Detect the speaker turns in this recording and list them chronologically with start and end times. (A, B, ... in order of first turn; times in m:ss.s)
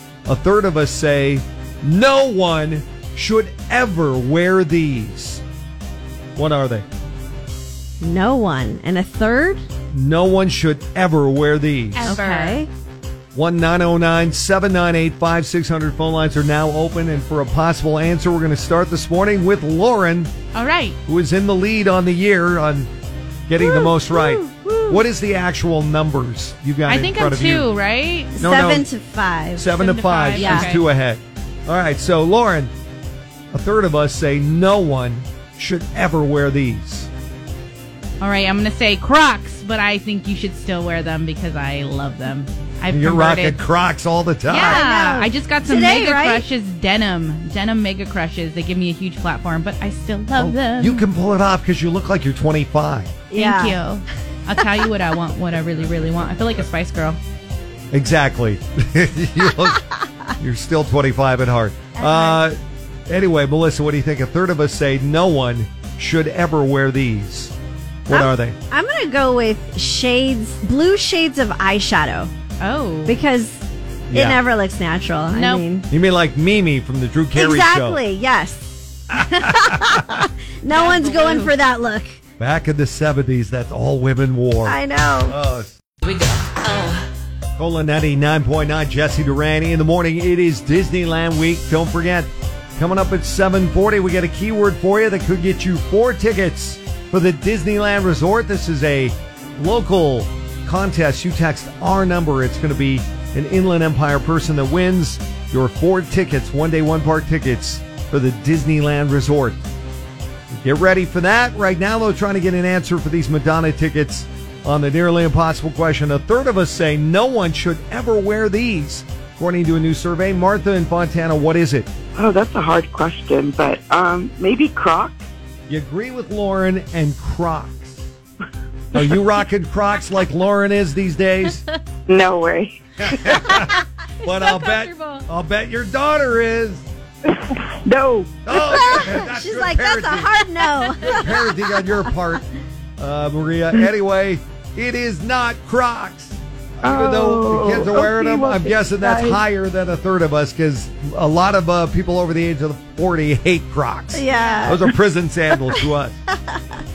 0:00.3-0:05.4 A
0:06.4-0:06.8 A
0:08.0-0:09.6 B
0:09.9-0:12.2 A
0:11.9-0:12.6 C
0:12.0-0:12.7 B
0:13.3-0:20.3 A
0:20.5-0:21.0 C
0:21.1-0:22.9 A
0:23.5-0:27.7 A
0:23.6-0:24.3 B
0:24.2-0:25.0 C
0:26.9-0:28.4 C
0:28.4-0:29.7 B
0:28.4-0:28.9 A
0:29.6-0:32.7 A
0:29.8-0:30.8 C
0:30.4-0:30.8 B
0:33.5-0:37.1 A
0:38.2-0:43.6 C
0:42.9-0:44.8 A
0:44.5-0:51.0 C
0:44.6-0:46.4 B
0:50.4-0:53.2 A
0:53.3-0:53.8 B
0:53.3-0:57.2 C
0:57.9-0:59.8 A
1:00.4-1:07.5 A
1:02.0-1:02.4 B
1:08.1-1:08.6 A
1:08.1-1:12.3 B
1:12.6-1:13.2 C
1:13.0-1:15.9 B
1:14.1-1:14.4 A
1:15.3-1:15.6 C
1:15.9-1:18.0 A
1:17.4-1:22.2 B
1:19.1-1:20.3 A
1:20.7-1:21.5 C
1:22.4-1:25.8 A
1:24.6-1:25.4 B
1:27.6-1:49.7 A
1:50.6-2:01.9 A
2:02.2-2:05.2 D
2:05.7-2:08.1 A
2:08.9-2:11.7 A
2:12.1-2:13.4 D
2:13.0-2:16.9 A
2:14.2-2:15.3 C
2:17.3-2:18.3 D
2:18.5-2:22.4 A
2:18.5-2:22.2 B
2:23.0-2:36.2 A
2:26.8-2:29.4 D
2:34.1-2:34.9 B
2:34.3-2:34.8 C
2:36.3-2:36.8 B